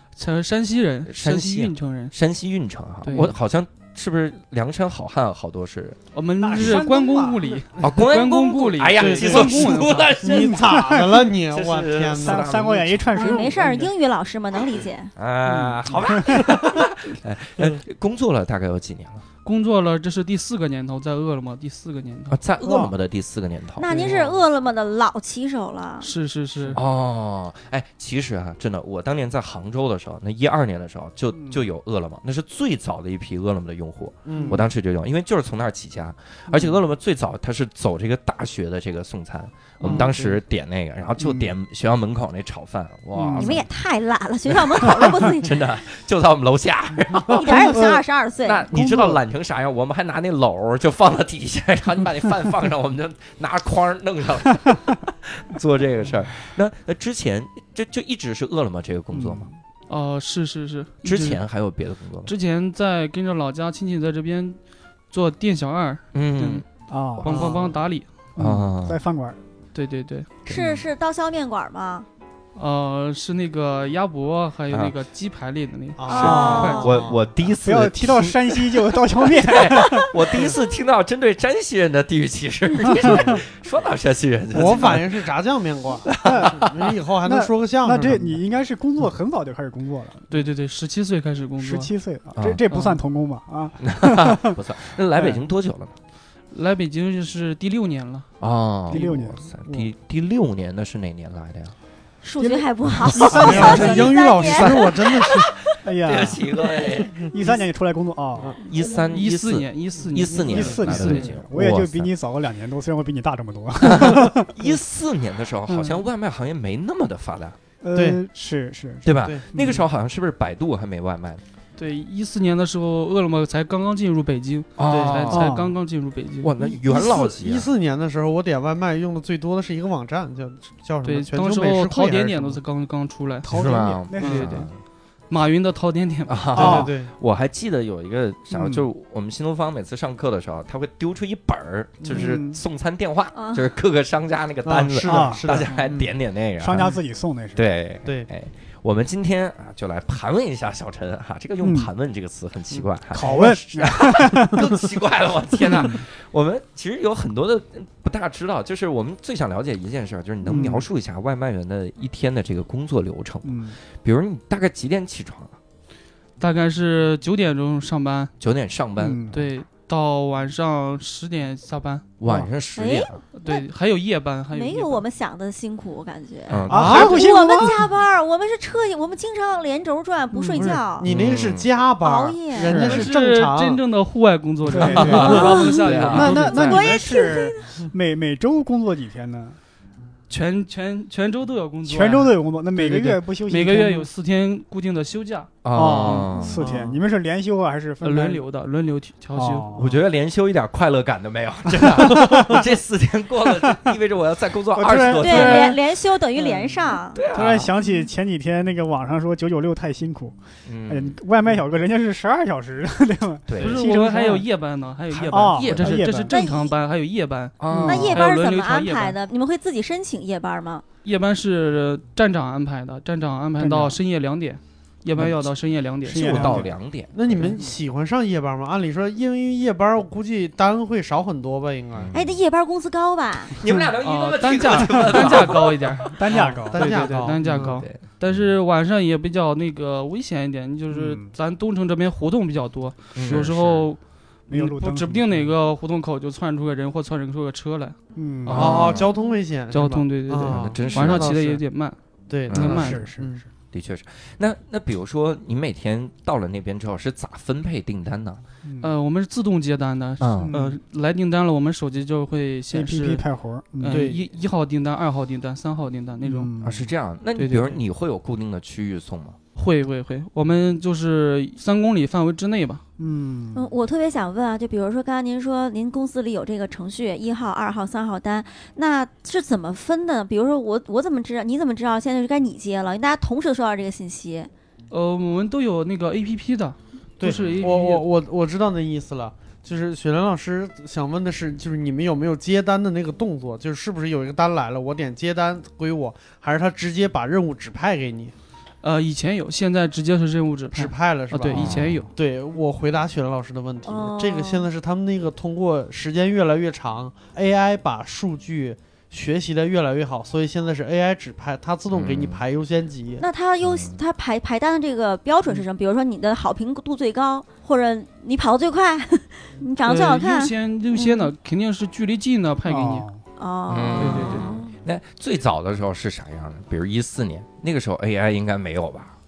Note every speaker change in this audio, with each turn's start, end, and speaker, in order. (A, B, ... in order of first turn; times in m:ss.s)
0:00.2-0:02.2 A
0:01.1-0:06.0 B
0:03.0-0:03.3 A
0:06.1-0:10.1 A
0:06.4-0:07.9 C
0:07.8-0:13.4 B
0:09.0-0:12.5 D
0:10.3-0:11.3 C
0:12.1-0:13.9 C
0:13.1-0:15.1 E
0:15.2-0:19.2 B
0:15.5-0:16.4 C
0:19.4-0:22.4 A
0:22.3-0:23.9 B
0:22.6-0:22.9 C
0:23.8-0:26.1 E
0:23.9-0:24.3 A
0:26.0-0:26.8 A
0:26.7-0:43.7 B
0:31.4-0:31.7 C
0:34.3-0:34.6 D
0:36.5-0:36.8 C
0:39.9-0:40.4 A
0:43.2-0:43.6 C
0:43.3-0:45.7 E
0:44.5-0:47.8 B
0:47.3-0:48.7 E
0:47.4-0:48.0 C
0:48.4-0:59.5 B
0:48.7-0:49.2 C
0:59.1-0:59.6 C
0:59.9-1:01.4 A
1:01.0-1:02.3 B
1:02.3-1:04.6 A
1:05.1-1:06.6 A
1:06.1-1:06.6 B
1:06.9-1:07.4 C
1:07.2-1:07.6 B
1:07.2-1:08.1 A
1:07.3-1:07.7 D
1:08.4-1:09.4 C
1:08.4-1:09.0 B
1:09.7-1:10.3 A
1:10.5-1:12.1 E
1:10.5-1:10.8 B
1:12.6-1:17.0 A
1:16.0-1:17.2 D
1:16.1-1:17.0 E
1:16.1-1:25.2 B
1:16.1-1:16.8 C
1:17.5-1:20.5 C
1:22.9-1:23.4 C
1:24.5-1:28.4 D
1:26.1-1:26.8 B
1:26.1-1:26.7 C
1:27.2-1:30.3 C
1:30.3-1:31.9 A
1:31.6-1:34.6 C
1:32.7-1:33.0 A
1:33.8-1:36.0 B
1:35.1-1:35.4 C
1:36.5-1:38.3 A
1:38.4-1:41.7 B
1:38.9-1:39.9 C
1:42.2-1:45.4 E
1:42.4-1:44.7 C
1:43.2-1:45.5 D
1:45.3-1:47.2 B
1:45.8-1:48.6 C
1:48.7-1:52.1 B
1:48.8-1:49.1 E
1:49.1-1:51.3 A
1:50.4-1:50.9 D
1:50.5-1:54.5 C
1:53.8-1:57.6 B
1:55.7-1:56.1 C
1:57.8-1:59.8 C
1:58.0-1:58.2 D
1:59.0-2:01.4 B
1:59.2-1:59.7 D
2:01.8-2:06.5 A
2:04.8-2:05.5 B
2:04.9-2:05.2 D
2:05.3-2:05.7 C
2:06.4-2:07.7 B
2:06.6-2:12.6 D
2:11.0-2:13.5 A
2:13.4-2:14.7 C
2:13.5-2:14.8 B
2:14.2-2:14.6 A
2:14.2-2:14.5 D
2:15.3-2:16.6 A
2:16.3-2:26.9 B
2:16.5-2:17.1 D
2:16.6-2:16.9 C
2:18.5-2:18.9 C
2:22.0-2:22.4 D
2:22.1-2:22.6 C
2:23.3-2:23.7 E
2:24.6-2:26.1 D
2:25.1-2:25.6 C
2:26.6-2:27.6 C
2:27.6-2:45.6 B
2:31.6-2:31.9 C
2:32.7-2:33.4 D
2:33.1-2:34.7 C
2:35.6-2:36.1 C
2:40.4-2:40.9 C
2:43.4-2:43.8 C
2:46.4-2:48.3 A
2:48.4-2:49.3 B
2:49.0-2:49.4 C
2:49.3-2:52.0 A
2:52.2-2:53.2 B
2:52.2-2:52.5 C
2:52.8-2:53.7 E
2:53.4-2:55.0 A
2:54.5-3:01.1 E
2:56.5-2:57.2 B
2:56.7-2:57.8 C
2:56.7-2:57.2 D
3:00.3-3:03.8 D
3:01.1-3:01.7 B
3:02.0-3:02.8 E
3:02.7-3:03.0 C
3:02.7-3:07.0 A
3:04.7-3:05.5 C
3:04.7-3:06.8 D
3:04.8-3:06.4 B
3:05.3-3:05.7 E
3:06.1-3:09.6 C
3:06.6-3:07.7 E
3:10.3-3:15.5 A
3:11.8-3:14.1 C
3:15.6-3:16.6 B
3:15.7-3:18.4 C
3:16.0-3:16.3 D
3:18.0-3:19.7 A
3:19.3-3:20.0 C
3:19.8-3:25.8 B
3:21.8-3:22.7 C
3:23.5-3:23.8 C
3:24.7-3:25.8 C
3:25.1-3:27.2 E
3:26.4-3:34.5 C
3:27.2-3:27.7 B
3:30.7-3:31.2 B
3:33.5-3:33.8 B
3:33.6-3:39.2 A
3:35.1-3:36.1 B
3:35.3-3:36.4 C
3:36.3-3:36.8 E
3:37.6-3:38.2 B
3:37.7-3:38.2 C
3:37.9-3:40.8 E
3:41.0-3:46.6 A
3:43.6-3:44.0 C
3:45.2-3:45.5 B
3:46.0-3:47.6 B
3:46.1-3:46.7 C
3:46.4-3:52.1 D
3:51.9-3:52.3 B
3:52.1-3:53.6 E
3:53.5-3:56.6 B
3:53.7-3:53.9 C
3:54.0-4:04.0 A
3:56.2-3:57.1 C
3:56.6-3:57.8 D
3:57.4-3:58.5 B
4:00.9-4:01.3 C
4:03.2-4:03.9 B
4:04.5-4:05.5 C
4:04.5-4:08.0 A
4:08.2-4:09.0 C
4:08.5-4:09.1 B
4:08.5-4:11.6 D
4:09.7-4:12.0 A
4:10.4-4:11.3 B
4:12.3-4:13.4 D
4:12.5-4:13.0 A
4:12.5-4:13.0 B
4:12.7-4:13.4 C
4:13.7-4:18.4 B
4:18.6-4:18.9 C
4:18.8-4:23.3 A
4:20.2-4:20.5 B
4:20.4-4:20.8 C
4:22.7-4:24.0 C
4:23.8-4:26.5 A
4:23.9-4:24.2 D
4:26.2-4:26.9 C
4:26.6-4:29.4 B
4:27.4-4:27.8 A
4:29.6-4:32.8 A
4:33.0-4:33.7 C
4:33.5-4:44.5 E
4:44.9-4:48.0 A
4:47.2-4:58.3 D
4:47.2-4:47.8 B
4:58.8-5:02.1 A
5:00.7-5:13.2 D
5:01.5-5:02.1 B
5:03.8-5:04.7 E
5:11.9-5:12.4 B
5:13.2-5:21.3 E
5:13.6-5:14.0 B
5:19.8-5:23.1 A
5:22.7-5:23.2 C
5:23.4-5:24.8 E
5:23.7-5:29.2 B
5:24.0-5:24.5 A